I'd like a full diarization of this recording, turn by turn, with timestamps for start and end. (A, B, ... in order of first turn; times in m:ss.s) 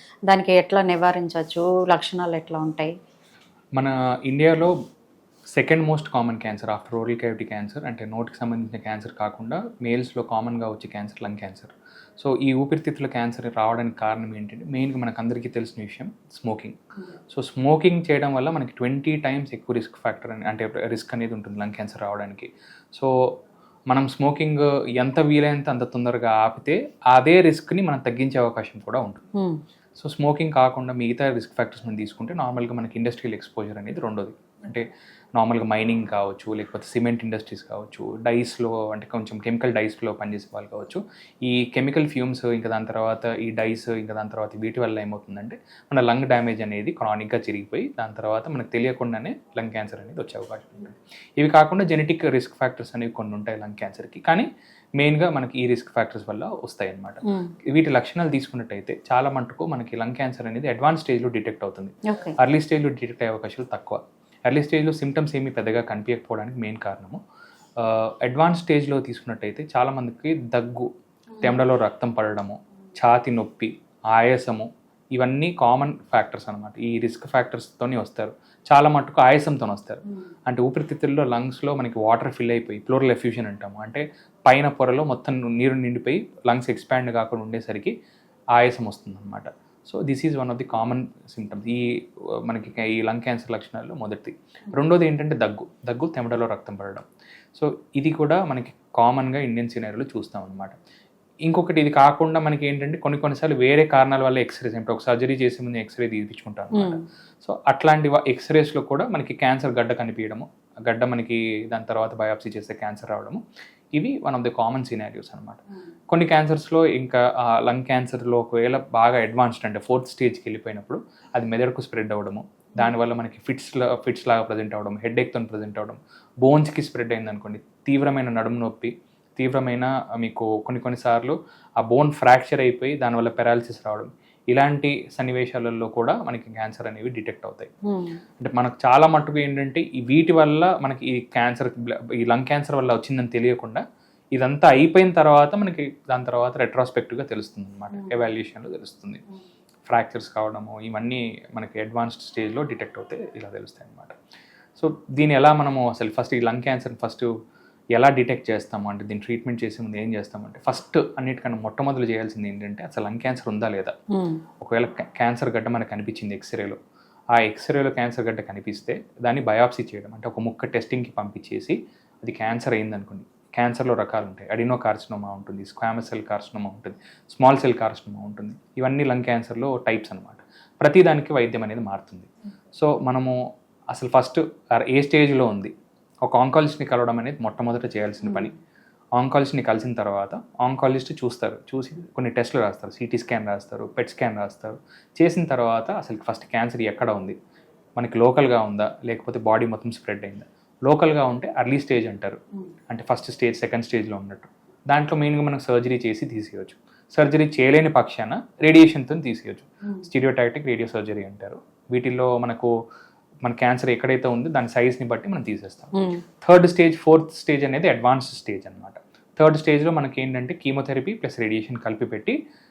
0:00.3-0:02.9 A
0:03.8-0:04.7 B
0:05.5-0:16.8 B
0:17.3-0:23.1 B
0:23.9-0:29.2 B
0:29.4-0:29.6 A
0:30.0-0:54.5 B
0:55.0-1:07.2 B
0:57.2-0:57.5 A
1:02.1-1:02.4 A
1:07.8-1:27.9 B
1:28.6-1:40.7 B
1:41.5-1:53.4 B
1:46.7-1:47.0 A
1:54.0-2:17.7 B
2:17.9-2:18.2 A
2:18.4-2:23.8 B
2:24.4-2:29.2 B
2:29.9-2:34.1 B
2:34.8-2:37.3 B
2:38.0-2:43.9 B
2:44.1-2:44.4 A
2:44.6-2:46.8 B
2:47.4-3:03.4 B
3:03.9-3:05.7 B
3:06.2-3:08.5 B
3:09.2-3:17.4 B
3:18.0-3:32.7 B
3:33.4-3:42.4 B
3:36.0-3:36.2 A